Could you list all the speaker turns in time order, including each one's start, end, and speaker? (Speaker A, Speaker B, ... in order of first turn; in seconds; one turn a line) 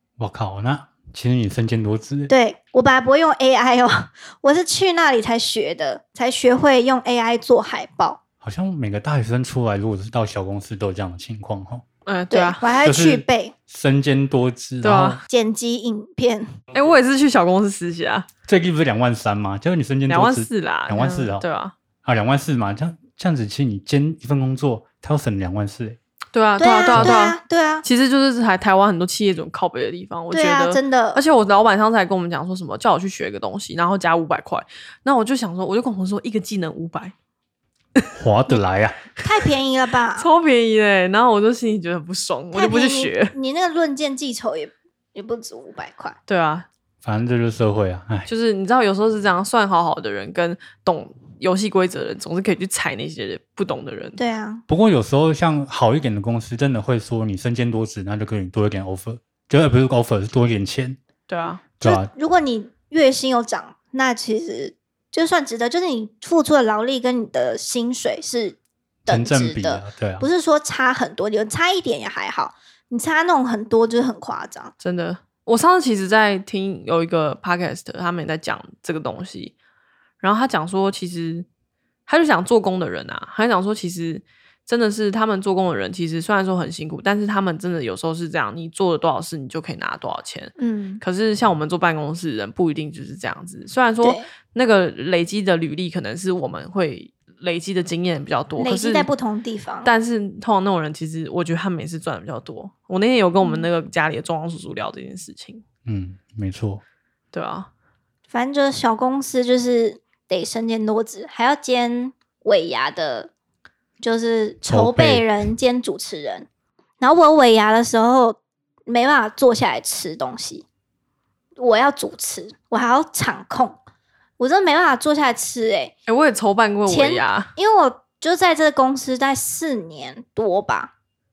Speaker A: 0.2-2.3
Speaker B: 2.3-8.2
Speaker A: 8.4-11.8
Speaker C: 12.1-12.7
Speaker B: 12.3-13.6
Speaker A: 12.8-15.2
Speaker C: 14.8-15.2
Speaker B: 15.3-16.6
Speaker C: 16.7-18.3
Speaker A: 18.5-21.5
Speaker C: 20.1-21.7
Speaker A: 22.1-26.0
Speaker C: 26.3-37.1
Speaker B: 26.6-27.9
Speaker A: 26.9-27.2
Speaker B: 30.3-31.2
Speaker A: 38.1-39.0
Speaker B: 39.2-40.3
Speaker C: 40.2-43.4
Speaker B: 42.5-46.2
Speaker C: 46.3-46.7
Speaker A: 47.0-48.3
Speaker C: 48.3-54.2
Speaker B: 54.2-54.6
Speaker A: 54.7-61.0
Speaker C: 61.3-61.6
Speaker A: 61.8-62.1
Speaker B: 61.8-74.7
Speaker A: 69.1-70.3
Speaker C: 74.8-79.5
Speaker C: 80.2-81.5
Speaker C: 82.1-99.1
Speaker B: 90.6-91.0
Speaker B: 94.0-94.3
Speaker B: 98.6-99.9
Speaker C: 99.8-105.6
Speaker A: 105.9-106.8
Speaker C: 107.3-107.7
Speaker B: 108.3-113.3
Speaker B: 114.0-116.5
Speaker A: 114.7-115.3
Speaker B: 117.0-120.7
Speaker B: 121.6-123.8
Speaker B: 124.4-125.9
Speaker C: 126.1-127.5
Speaker B: 126.9-130.9